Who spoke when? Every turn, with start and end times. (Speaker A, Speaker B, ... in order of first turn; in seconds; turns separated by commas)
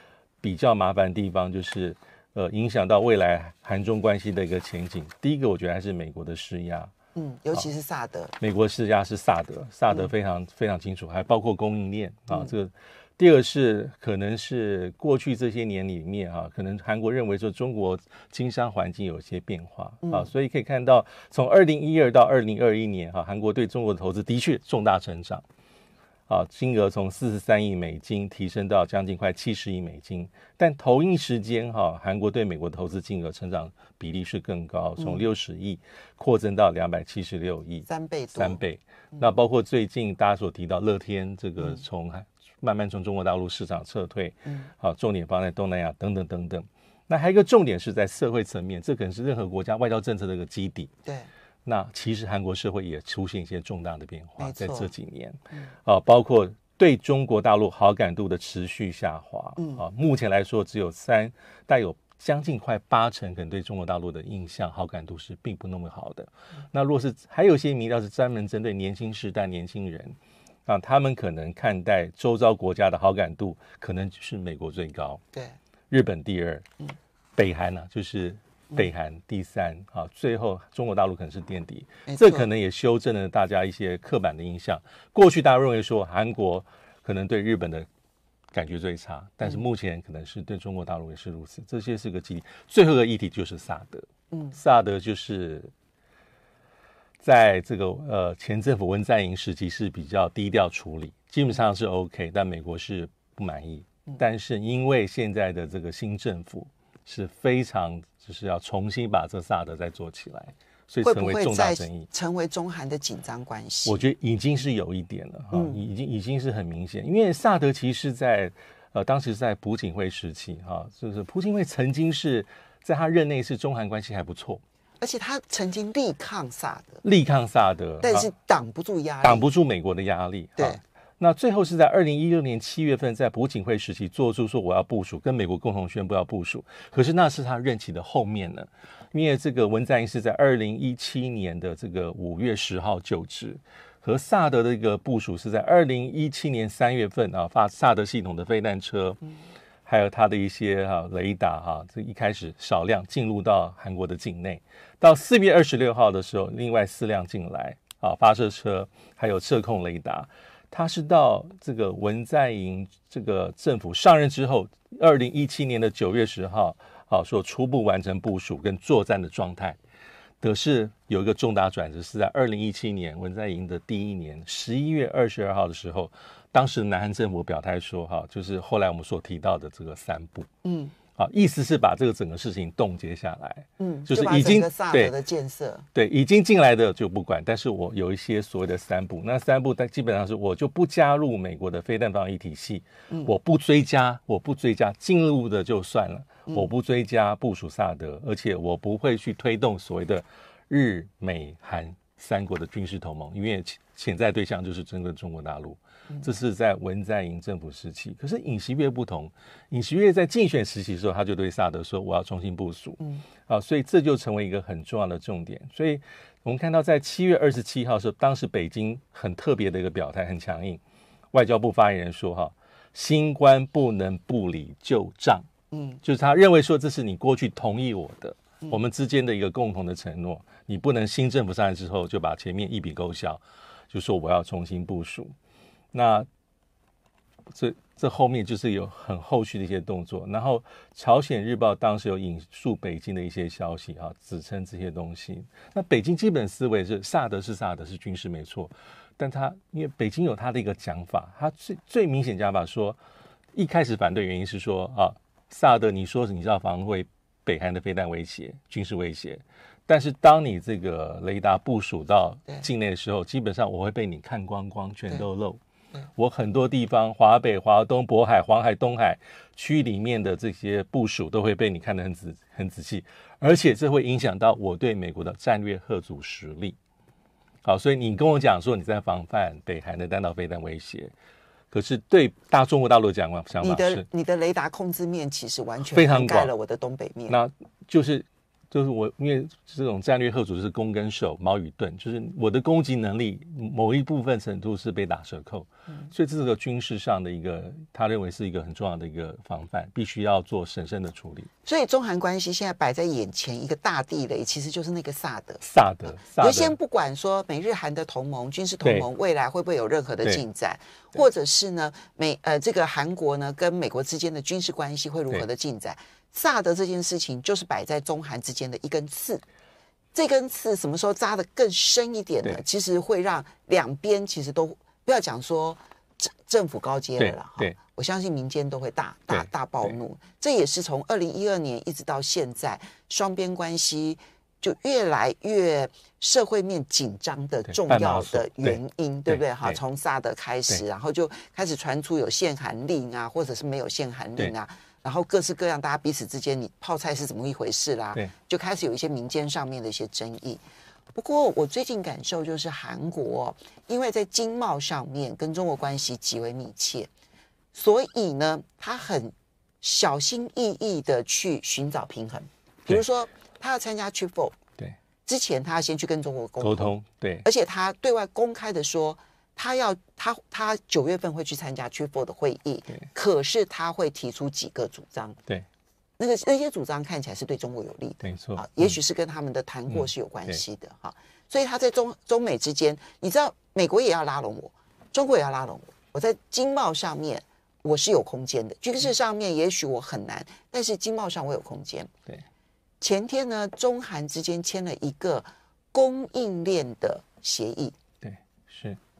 Speaker A: 0.4-6.9, Speaker B: 7.1-8.3, Speaker A: 8.4-25.4, Speaker A: 26.3-50.9, Speaker B: 37.9-38.6, Speaker A: 51.6-75.2, Speaker B: 54.4-54.9, Speaker B: 59.6-59.8, Speaker A: 75.9-76.7, Speaker A: 77.3-87.9, Speaker B: 82.1-82.5, Speaker A: 88.5-95.7, Speaker A: 97.2-112.1, Speaker B: 111.0-114.0, Speaker A: 113.8-124.6, Speaker B: 115.5-115.8, Speaker B: 125.0-127.0, Speaker A: 127.0-128.3, Speaker B: 128.0-129.5, Speaker A: 129.2-149.2, Speaker A: 149.9-169.8, Speaker A: 170.4-180.5, Speaker B: 180.6-180.9, Speaker A: 181.1-185.1, Speaker B: 183.8-185.9, Speaker A: 185.9-220.8, Speaker A: 221.3-225.5, Speaker B: 225.7-226.0, Speaker A: 226.0-235.3, Speaker A: 235.9-236.3, Speaker A: 237.5-253.0, Speaker A: 253.5-265.6, Speaker A: 266.1-276.8, Speaker A: 277.6-281.1, Speaker A: 281.7-284.1, Speaker B: 283.6-287.4, Speaker A: 285.8-286.5, Speaker A: 287.3-301.5, Speaker B: 301.6-305.6, Speaker A: 305.6-306.8, Speaker B: 306.2-319.4, Speaker B: 320.1-350.6, Speaker A: 327.2-327.7, Speaker A: 329.3-329.9, Speaker A: 337.7-339.8, Speaker B: 351.1-357.1, Speaker B: 357.7-364.6, Speaker B: 365.2-375.4, Speaker A: 366.6-367.4, Speaker B: 376.2-392.1, Speaker A: 378.2-378.9, Speaker A: 379.9-380.6, Speaker B: 393.0-397.9, Speaker A: 398.2-399.0